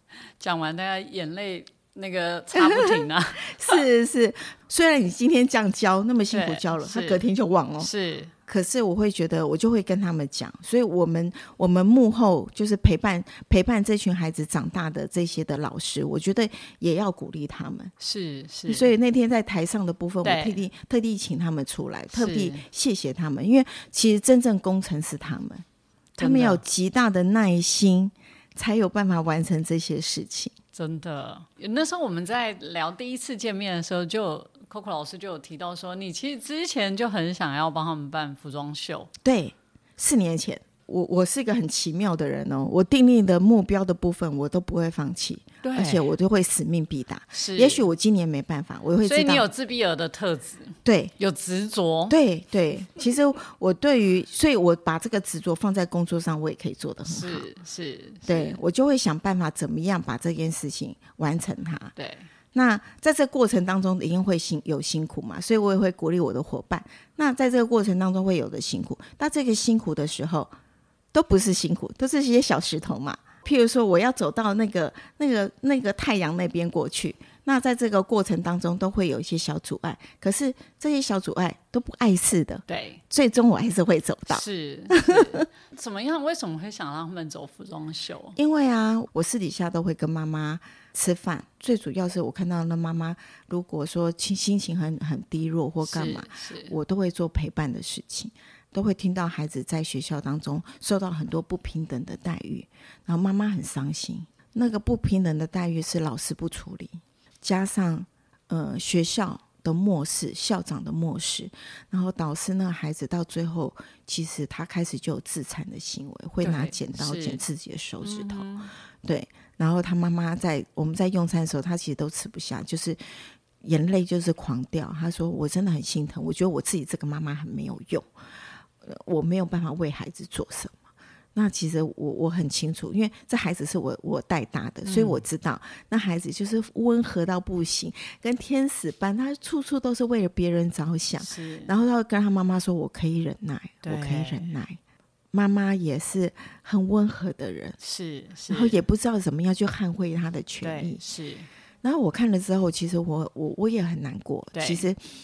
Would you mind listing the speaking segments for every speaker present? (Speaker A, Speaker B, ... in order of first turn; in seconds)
Speaker A: 0.4-3.7, 6.3-7.2, 7.8-8.3, 18.0-18.9, 20.2-20.6, 22.1-22.6, 26.2-26.6, 30.7-39.1, 45.6-46.1, 47.3-47.9, 49.0-52.1, 57.0-58.6, 62.0-62.3, 82.7-83.0, 84.3-88.4, 95.8-96.7, 116.4-117.4, 118.0-118.7, 134.8-135.2, 141.2-141.7, 143.8-144.5, 147.8-148.8, 150.6-151.5, 154.5-154.8
Speaker B: 2.5-7.9, 8.5-17.9, 18.7-25.6, 26.2-30.5, 39.2-49.5, 50.8-51.1, 52.1-57.5, 58.2-61.9, 62.5-70.5, 71.1-85.4, 88.3-118.4, 119.0-123.0, 123.6-128.1, 128.8-130.7, 131.3-144.8, 145.3-147.8, 148.5-151.0, 151.8-155.0